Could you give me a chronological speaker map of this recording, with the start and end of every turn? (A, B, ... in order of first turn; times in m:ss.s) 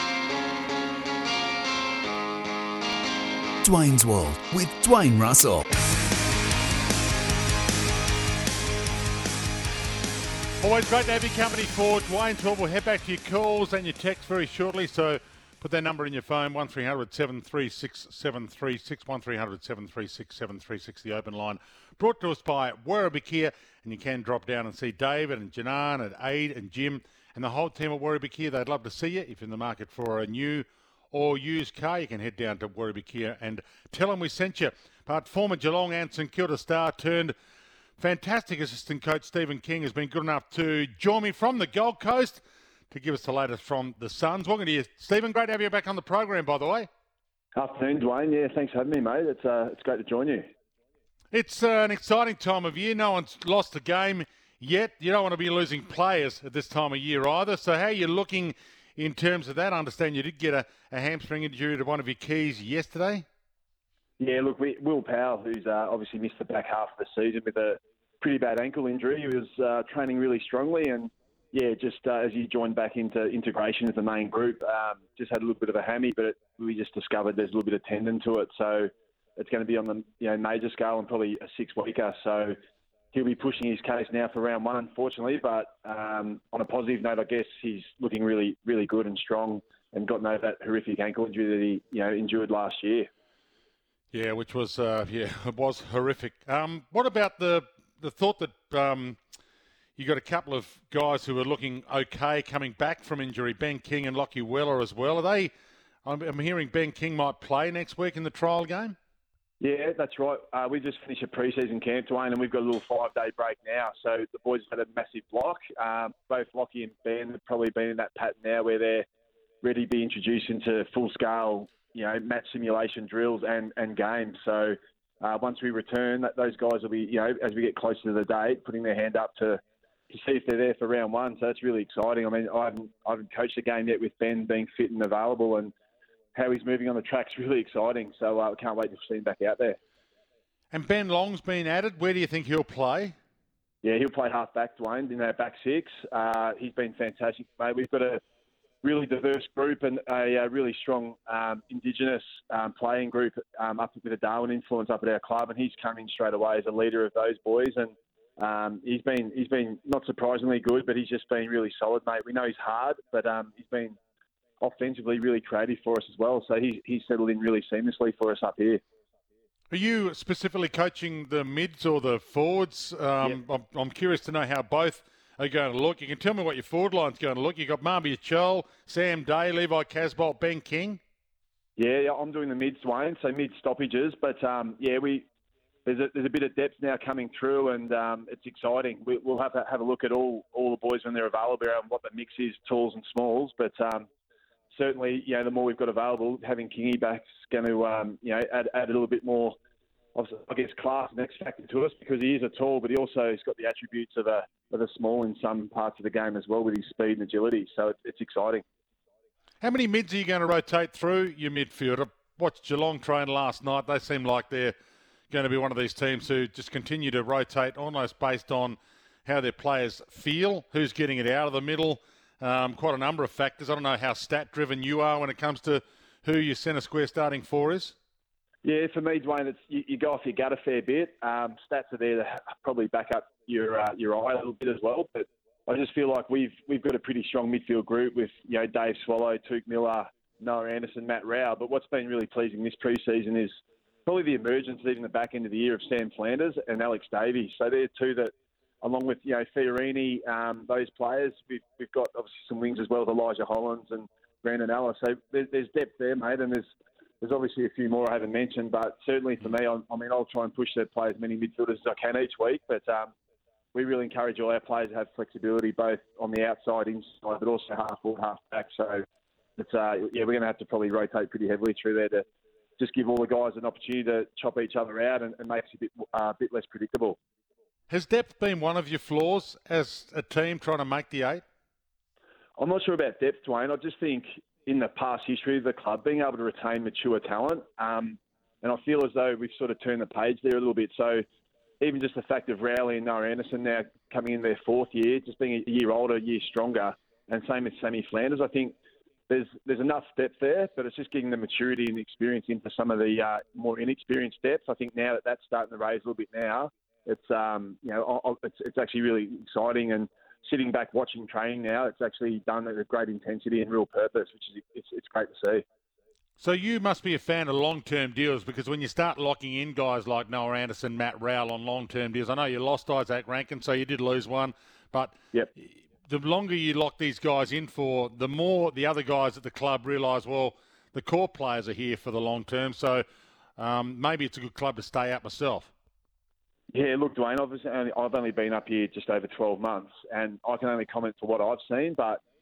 0:03.6-0:05.6 A
0:10.6-0:37.3 B
0:38.0-0:46.9 B
0:47.5-0:50.5 C
0:51.3-1:03.2 B
1:04.2-1:22.6 C
1:23.1-1:33.1 C
1:34.1-1:39.2 B
1:40.0-1:45.5 B
1:46.0-1:48.9 B
1:49.6-1:59.0 C
1:59.6-2:15.7 C
2:16.3-2:19.8 C
2:20.7-2:23.1 B
2:23.8-2:28.2 C
2:28.8-2:44.0 C
2:44.6-2:48.8 C
2:49.7-3:01.0 B
3:01.8-3:05.2 C
3:05.8-3:14.1 C
3:14.7-3:19.6 C
3:20.1-3:28.6 C
3:29.6-3:34.7 B
3:35.3-3:48.0 B
3:48.6-4:03.5 C
4:04.0-4:16.6 C
4:17.2-4:23.1 C
4:23.7-4:29.0 C
4:29.6-4:32.2 C
4:32.8-4:37.2 C
4:37.9-4:41.4 B
4:42.6-4:51.2 C
4:51.8-4:58.8 C
4:59.3-5:15.6 C
5:16.4-5:33.0 B
5:33.6-5:35.7 B
5:36.7-5:42.2 C